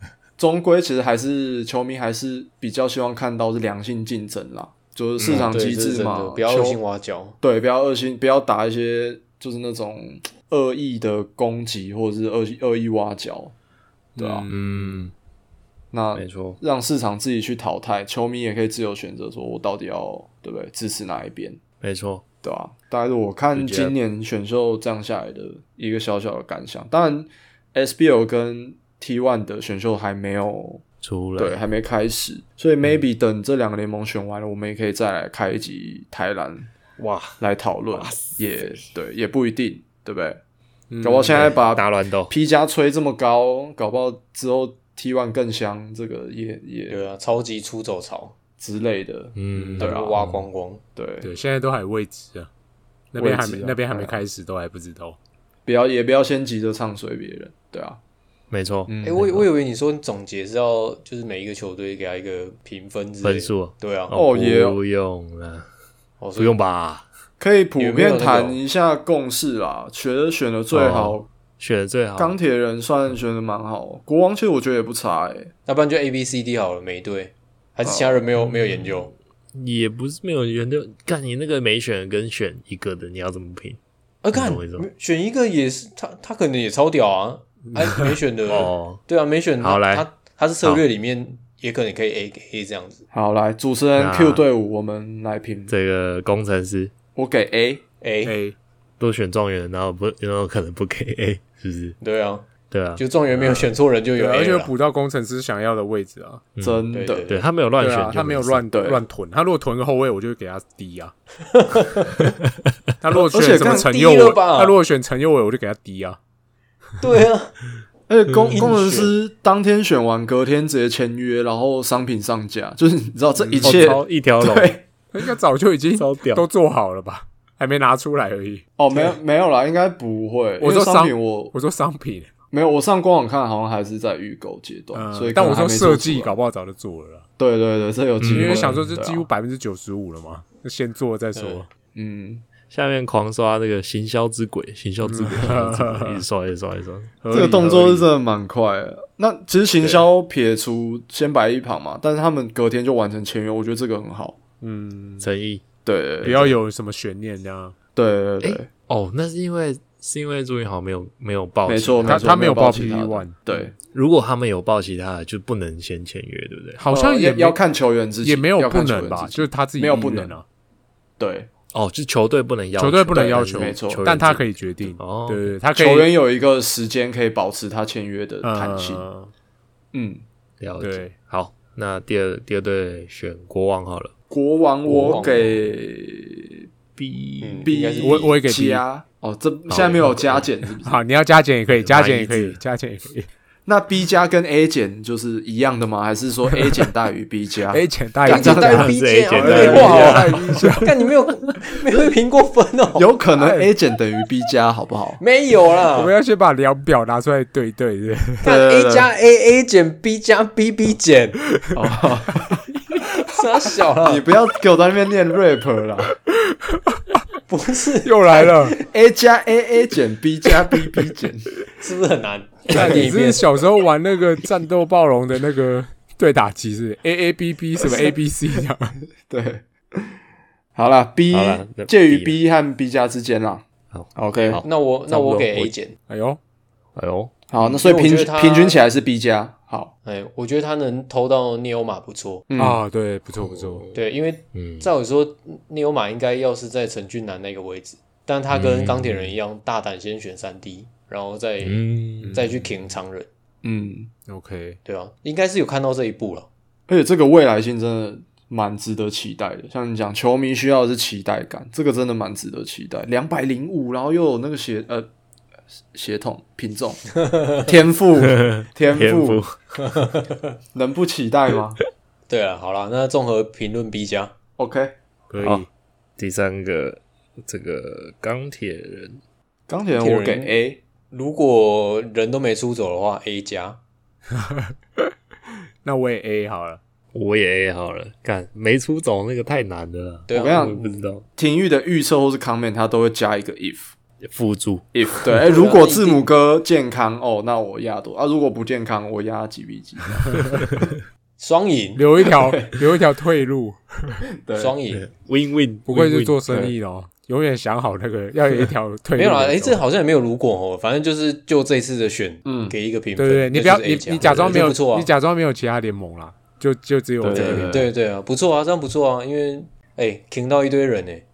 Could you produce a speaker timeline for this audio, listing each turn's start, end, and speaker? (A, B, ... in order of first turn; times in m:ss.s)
0:00.4-0:06.8 A
0:05.2-0:05.5 B
0:05.2-0:07.4 C
0:07.4-0:13.5 A
0:14.2-0:15.1 D
0:14.2-0:14.5 A
0:14.5-0:15.1 B
0:15.9-0:21.6 A
0:16.1-0:16.6 B
0:21.8-0:22.2 B
0:22.4-0:30.8 A
0:23.5-0:24.0 B
0:31.0-0:31.6 B
0:31.4-0:36.7 A
0:37.0-0:37.4 B
0:37.4-0:40.4 A
0:37.9-0:38.9 B
0:40.9-0:41.5 D
0:41.0-0:47.1 A
0:41.3-0:42.3 B
0:46.9-0:48.4 C
0:48.6-0:50.2 A
0:49.4-0:50.5 B
0:49.5-0:49.9 D
0:49.8-0:50.8 C
0:51.0-0:51.3 A
0:51.2-0:52.5 D
0:53.1-0:55.2 D
0:53.2-0:54.2 A
0:55.7-0:58.0 A
0:58.5-0:59.3 B
0:58.9-0:59.4 A
0:59.0-1:04.2 C
1:03.2-1:05.7 B
1:04.1-1:04.8 A
1:06.2-1:06.6 C
1:06.4-1:07.1 B
1:07.4-1:11.3 A
1:07.8-1:08.6 C
1:10.7-1:12.4 B
1:12.2-1:15.5 A
1:15.7-1:19.1 C
1:17.8-1:18.3 A
1:19.5-1:23.8 B
1:24.2-1:33.1 C
1:24.3-1:24.9 B
1:28.5-1:29.0 B
1:29.6-1:30.1 B
1:33.1-1:35.7 A
1:34.0-1:34.4 B
1:35.7-1:36.9 B
1:37.2-1:37.8 A
1:38.0-1:38.4 C
1:38.2-1:38.6 D
1:39.0-1:42.0 B
1:42.0-1:44.7 C
1:42.7-1:43.7 B
1:44.2-1:46.5 D
1:46.6-1:48.7 B
1:46.6-1:47.4 A
1:46.9-1:47.4 C
1:47.8-1:51.1 D
1:48.7-1:49.0 A
1:51.5-1:52.3 C
1:53.0-1:56.2 D
1:53.1-1:53.9 A
1:53.5-1:54.8 C
1:57.0-1:57.6 C
1:58.1-2:04.8 A
1:58.4-1:59.2 C
2:03.4-2:04.0 D
2:03.6-2:04.8 B
2:05.1-2:09.2 D
2:05.9-2:06.4 B
2:08.8-2:11.5 A
2:10.6-2:12.3 D
2:12.5-2:16.4 A
2:14.9-2:17.3 D
2:17.4-2:19.2 A
2:18.2-2:18.9 B
2:18.3-2:21.7 D
2:21.4-2:21.6 C
2:22.0-2:22.4 A
2:22.7-2:27.6 B
2:25.0-2:26.2 D
2:27.2-2:28.1 D
2:27.3-2:34.4 A
2:34.6-2:35.3 D
2:35.2-2:35.6 B
2:35.8-2:36.6 A
2:36.2-2:37.8 D
2:38.0-2:38.7 A
2:38.4-2:42.4 B
2:41.7-2:43.8 A
2:42.0-2:43.4 D
2:43.9-2:46.8 B
2:46.8-2:47.6 D
2:46.9-2:50.4 A
2:48.2-2:50.4 D
2:51.2-2:51.5 A
2:51.7-2:55.5 B
2:52.8-2:56.1 D
2:53.1-2:54.1 A
2:55.8-2:59.0 A
2:58.4-2:59.3 D
2:59.9-3:00.2 A
3:00.6-3:04.1 B
3:00.8-3:01.1 D
3:04.3-3:06.7 A
3:04.9-3:05.4 B
3:04.9-3:05.6 C
3:07.0-3:07.7 B
3:07.4-3:08.3 C
3:07.6-3:11.0 A
3:08.0-3:08.8 D
3:09.7-3:10.5 B
3:10.8-3:13.3 D
3:11.7-3:12.6 B
3:13.7-3:20.8 A
3:16.5-3:16.9 D
3:17.7-3:20.9 D
3:18.3-3:23.1 C
3:18.6-3:20.4 B
3:23.0-3:25.2 A
3:23.4-3:23.7 D
3:25.2-3:26.1 C
3:25.9-3:28.4 D
3:28.4-3:31.4 C
3:28.4-3:29.1 A
3:31.7-3:32.6 A
3:33.0-3:34.3 C
3:34.0-3:36.2 A
3:36.3-3:37.0 D
3:37.5-3:38.8 C
3:38.0-3:38.8 D
3:38.8-3:41.5 A
3:41.8-3:43.5 C
3:42.7-3:43.1 A
3:42.7-3:49.0 D
3:47.8-3:48.2 A
3:49.3-3:50.2 A
3:50.8-3:54.6 A
3:51.3-3:52.4 B
3:53.9-3:55.7 B
3:54.6-3:56.0 C
3:56.1-3:56.4 D
3:57.0-3:57.4 B
3:57.5-3:59.9 A
3:57.6-3:58.8 C
4:00.0-4:02.5 C
4:02.5-4:02.8 A
4:02.6-4:03.8 D
4:03.4-4:04.0 B
4:03.9-4:11.8 C
4:04.5-4:04.9 B
4:08.5-4:09.3 B
4:11.6-4:12.4 B
4:12.2-4:12.7 D
4:12.3-4:13.3 C
4:13.6-4:14.1 A
4:14.3-4:14.8 D
4:14.8-4:16.5 C
4:16.9-4:25.1 A
4:25.9-4:29.4 A
4:28.2-4:29.5 B
4:29.8-4:30.5 C
4:30.7-4:31.8 A
4:32.3-4:34.3 C
4:34.6-4:34.9 A
4:35.3-4:35.7 D
4:35.4-4:35.7 B
4:36.2-4:39.2 B
4:39.7-4:40.8 A
4:40.0-4:40.6 C
4:41.1-4:43.8 C
4:44.4-4:45.1 D
4:45.8-4:46.8 D
4:47.1-4:51.3 B
4:50.3-4:50.8 C
4:50.3-4:53.9 A
4:54.2-4:55.3 B
4:54.9-5:00.6 A
4:55.3-4:56.3 C
5:01.4-5:02.0 C
5:02.0-5:04.2 D
5:02.3-5:02.7 A
5:04.4-5:04.8 A
5:04.6-5:05.1 C
5:04.9-5:06.7 B
5:05.9-5:09.8 D
5:09.2-5:15.1 C
5:12.4-5:12.8 A
5:13.2-5:17.9 D
5:14.2-5:14.7 B
5:17.2-5:17.8 A
5:17.3-5:21.2 C
5:17.4-5:17.7 B